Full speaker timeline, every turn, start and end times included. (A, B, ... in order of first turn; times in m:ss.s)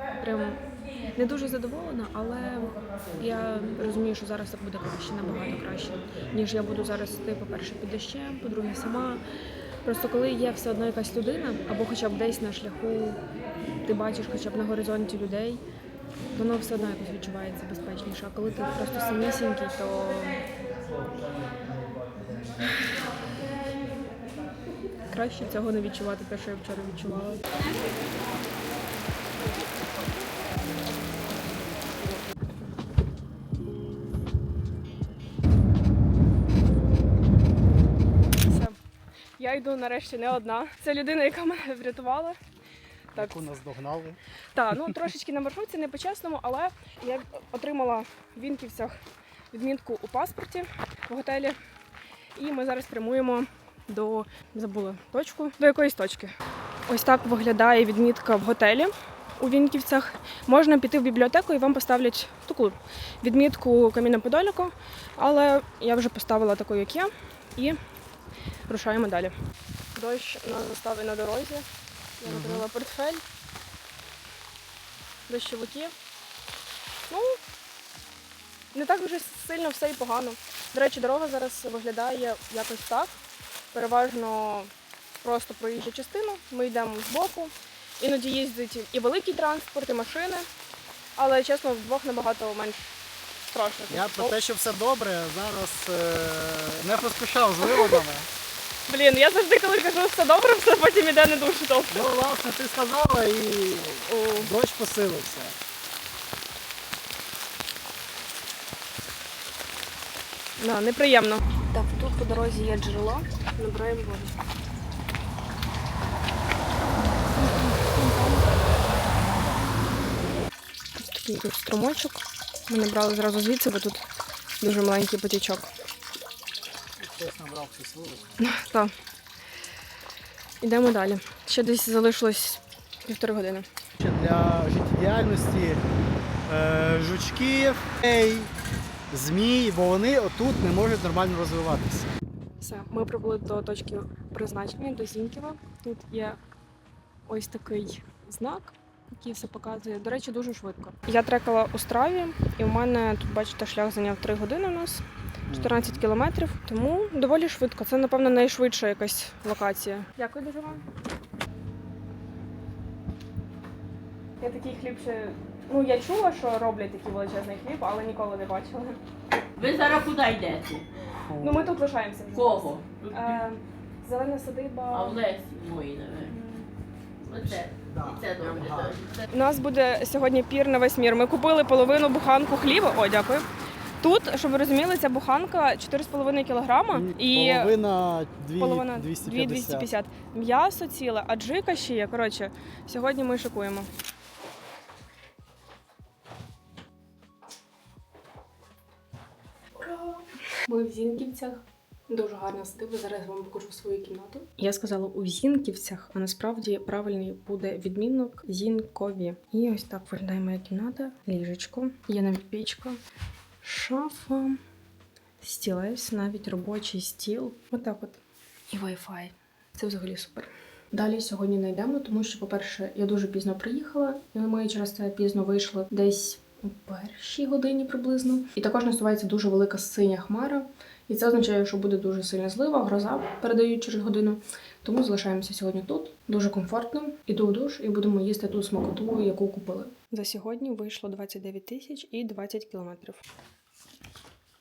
0:00.2-0:09.2 A
0:09.8-0:13.2 A
0:13.8-0:15.6 A
0:16.3-0:20.4 A
0:25.1-0:27.4 A
0:38.4-0:38.8 A
0:39.4-0:42.4 A
0:43.1-0:43.5 A
0:43.2-0:44.2 B
0:44.6-0:49.0 A
0:49.5-0:51.6 A
0:52.4-0:56.3 A
0:56.9-1:07.8 A
1:08.7-1:09.4 A
1:10.0-1:11.7 A
1:12.2-1:13.2 A
1:12.3-1:12.6 B
1:15.3-1:15.9 A
1:17.1-1:17.4 A
1:18.7-1:23.2 A
1:23.7-1:24.7 A
1:25.2-1:30.5 A
1:31.2-1:33.0 A
1:33.5-1:34.4 A
1:33.9-1:38.3 B
1:37.6-1:38.0 A
1:38.9-1:42.1 A
1:41.9-1:45.6 B
1:44.1-1:44.5 A
1:50.6-1:54.4 A
1:57.4-1:59.4 A
2:01.0-2:04.1 A
2:04.6-2:05.7 A
2:07.0-2:08.4 B
2:08.4-2:08.9 A
2:10.6-2:13.7 A
2:14.0-2:15.8 B
2:16.5-2:18.5 B
2:19.1-2:22.1 B
2:22.6-2:26.4 A
2:27.3-2:40.8 A
2:35.5-2:36.0 B
2:44.4-2:49.0 A
2:49.6-2:50.9 C
2:51.2-2:51.7 B
2:51.4-2:55.2 A
2:52.3-2:53.4 C
2:54.9-2:56.3 C
2:56.3-2:56.7 A
2:57.2-2:59.3 C
2:57.9-2:59.0 B
2:59.3-3:03.5 A
3:04.0-3:07.7 A
3:06.9-3:09.9 B
3:08.6-3:13.9 A
3:19.8-3:33.0 A
3:33.6-3:34.6 A
3:35.4-4:03.2 A